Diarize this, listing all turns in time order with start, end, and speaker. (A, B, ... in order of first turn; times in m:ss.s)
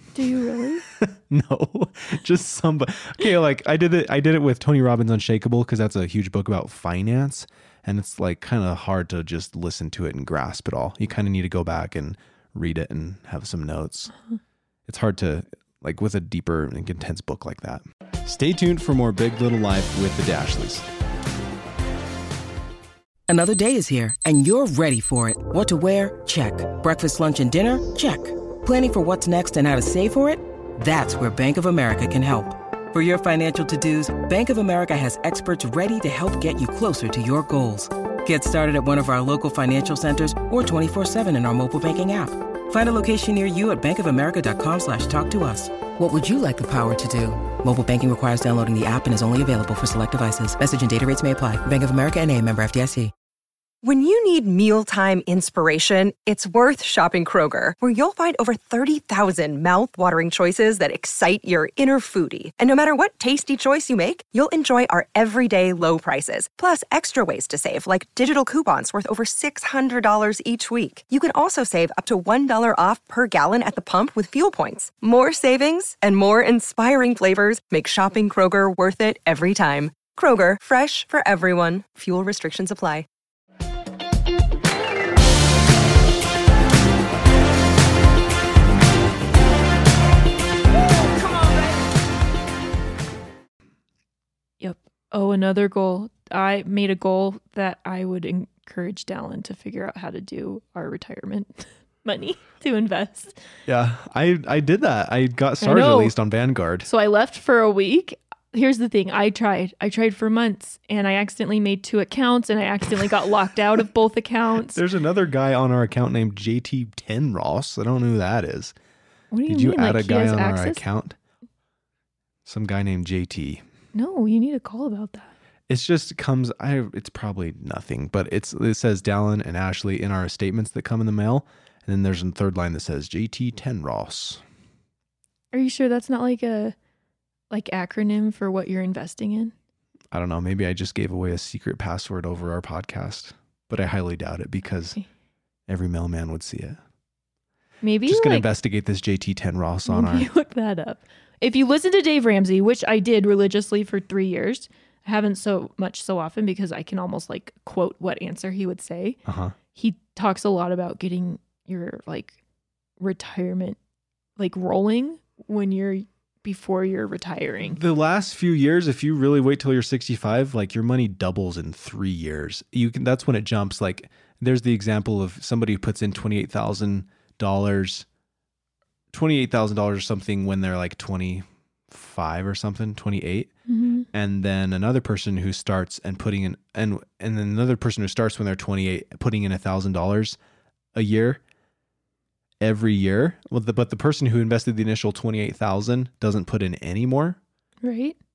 0:00.2-0:00.8 A
0:01.0-0:14.1 B
0:14.9-0:20.9 B
0:23.3-0:53.1 C
0:53.8-1:23.1 D
1:34.6-1:43.4 A
1:43.7-1:46.9 B
1:45.6-1:46.2 A
1:46.8-1:54.8 A
1:54.7-1:58.7 B
1:59.3-2:00.8 A
1:59.5-2:01.2 B
2:02.4-2:03.6 B
2:03.9-2:05.3 A
2:05.7-2:14.4 B
2:15.5-2:16.8 A
2:17.5-2:19.5 A
2:20.1-2:25.0 B
2:25.7-2:26.8 B
2:27.8-2:28.5 A
2:28.1-2:30.3 B
2:29.9-2:39.2 A
2:39.3-2:39.6 B
2:39.7-2:42.4 A
2:43.0-2:43.8 A
2:44.4-2:47.8 A
2:47.7-2:58.1 B
2:59.1-3:03.5 B
3:03.7-3:04.1 A
3:04.1-3:10.4 B
3:10.9-3:11.4 B
3:12.6-3:17.4 B
3:17.8-3:18.2 A